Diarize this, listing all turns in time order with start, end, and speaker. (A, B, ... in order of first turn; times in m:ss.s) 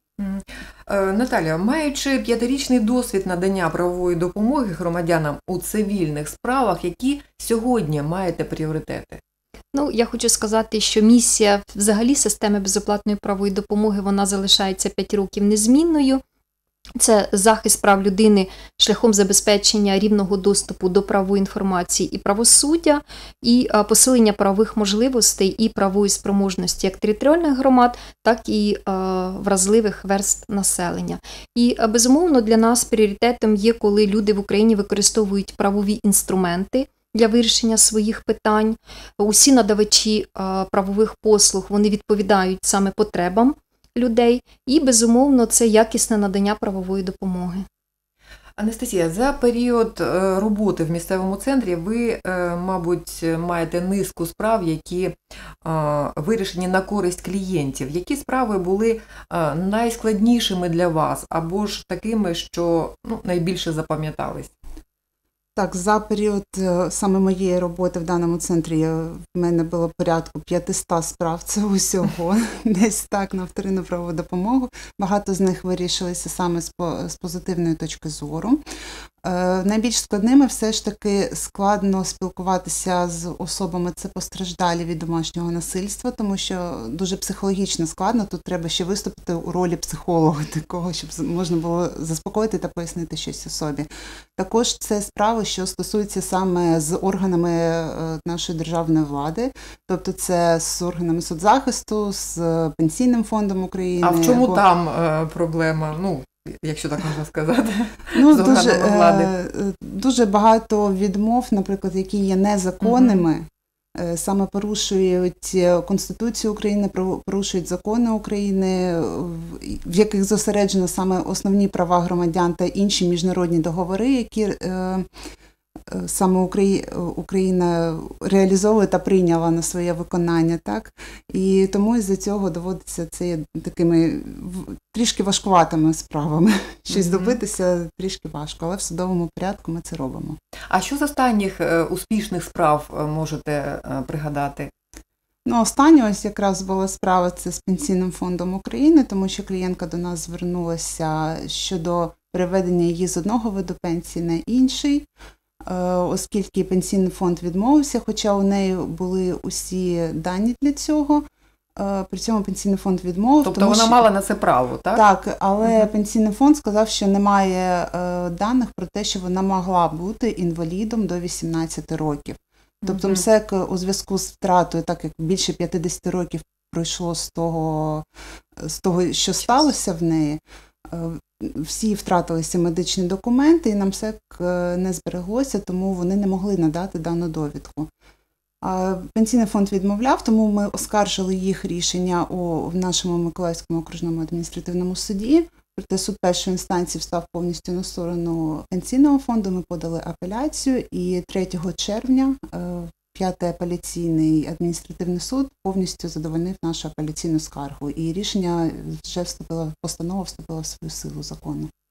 0:00.2-0:09.2 A
0:09.7-0:16.2 B
0:17.0-0:47.7 B
0:48.6-1:04.5 A
1:05.6-1:18.6 C
1:19.2-1:44.6 C
1:44.0-1:49.3 A
1:48.2-2:05.1 C
1:52.8-1:53.2 A
2:05.9-2:20.4 C
2:16.9-2:17.4 A
2:20.7-2:24.7 A
2:25.5-2:35.1 C
2:35.6-2:41.2 C
2:41.8-2:44.0 C
2:43.4-2:45.0 A
2:44.9-2:58.1 C
2:52.8-2:53.2 A
2:58.6-3:07.9 C
3:08.6-3:31.7 C